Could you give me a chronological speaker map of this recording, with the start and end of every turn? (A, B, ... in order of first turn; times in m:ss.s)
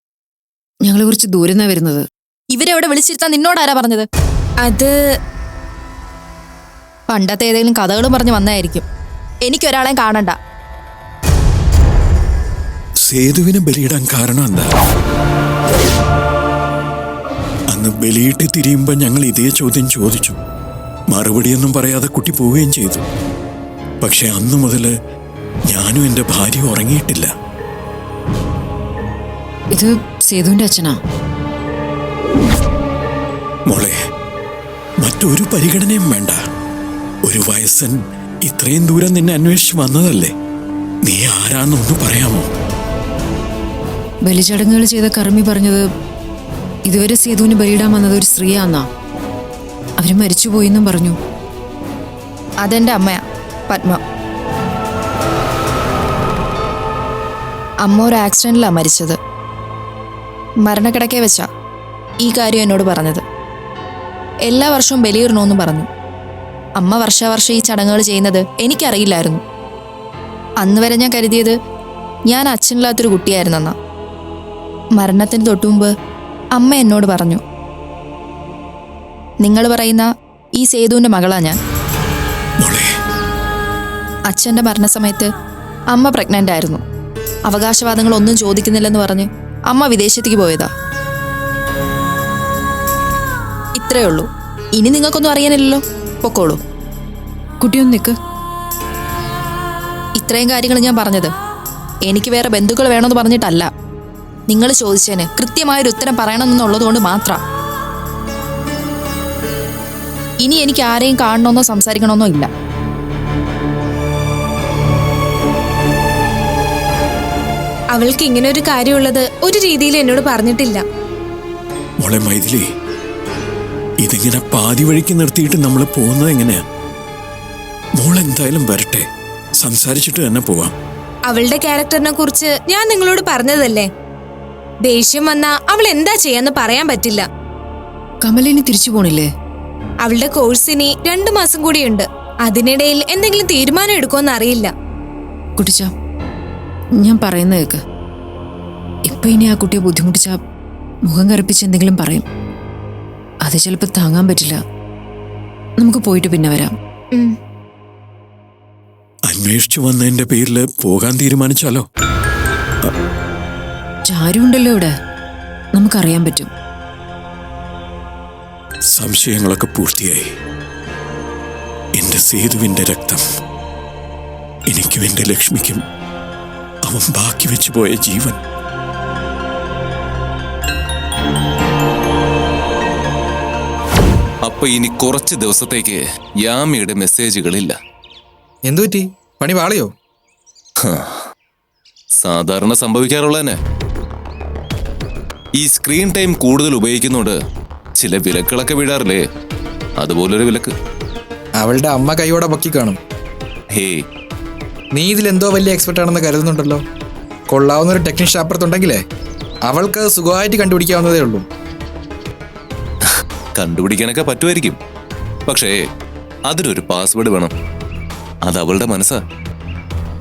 0:00.8-0:02.1 A
0:02.5-0:04.1 B
0:04.6-0:05.0 C
0:07.1-0:08.8 B
0:09.4-0:10.4 B
0:13.0-0:14.8 D
0:17.7-0:20.4 D
0:21.1-0:23.0 D
0:24.0-0:24.9 D
0:25.7-0:27.3 D
0:29.7-0:31.0 A
0:33.7-0:34.0 D
0:35.0-0:36.4 D
0:37.3-0:40.3 D
0:41.0-0:42.5 D
0:44.3-0:45.8 A
0:46.9-0:48.9 A
0:50.0-0:51.2 A
0:52.6-0:54.0 B
0:57.8-0:59.2 B
1:00.6-1:01.5 B
1:02.2-1:03.2 B
1:04.5-1:05.9 B
1:06.8-1:09.4 B
1:10.6-1:11.6 B
1:12.3-1:13.8 B
1:15.0-1:15.9 B
1:16.6-1:17.4 B
1:19.4-1:21.6 B
1:22.6-1:22.9 D
1:24.3-1:25.3 B
1:25.9-1:26.8 B
1:27.5-1:30.7 B
1:33.8-1:36.6 B
1:37.6-1:38.2 A
1:40.2-1:41.3 B
1:42.1-1:43.7 B
1:44.5-1:47.4 B
1:50.4-1:52.5 B
1:58.0-2:00.8 C
2:02.0-2:02.6 D
2:04.0-2:06.6 D
2:08.0-2:09.1 D
2:09.6-2:10.7 D
2:11.3-2:13.9 C
2:14.9-2:17.3 C
2:18.2-2:19.3 A
2:20.0-2:24.7 C
2:25.6-2:25.9 A
2:27.0-2:27.8 A
2:29.1-2:30.4 A
2:31.1-2:32.2 A
2:33.4-2:34.6 A
2:35.8-2:36.8 A
2:39.3-2:41.8 D
2:44.1-2:44.9 A
2:45.8-2:46.5 A
2:48.9-2:50.3 D
2:52.0-2:53.2 D
2:54.7-2:55.8 D
2:56.9-2:58.4 D
3:04.5-3:07.8 E
3:08.7-3:09.9 F
3:10.8-3:11.2 E
3:12.2-3:13.6 E
3:15.6-3:17.4 E
3:18.0-3:19.2 E
3:20.0-3:20.7 E
3:21.6-3:23.0 F
3:23.7-3:24.0 E
3:25.0-3:26.8 F
3:27.5-3:29.0 F
3:29.7-3:31.4 F
3:33.6-3:34.8 E
3:35.5-3:35.8 E
3:36.5-3:37.5 E
3:38.5-3:39.2 E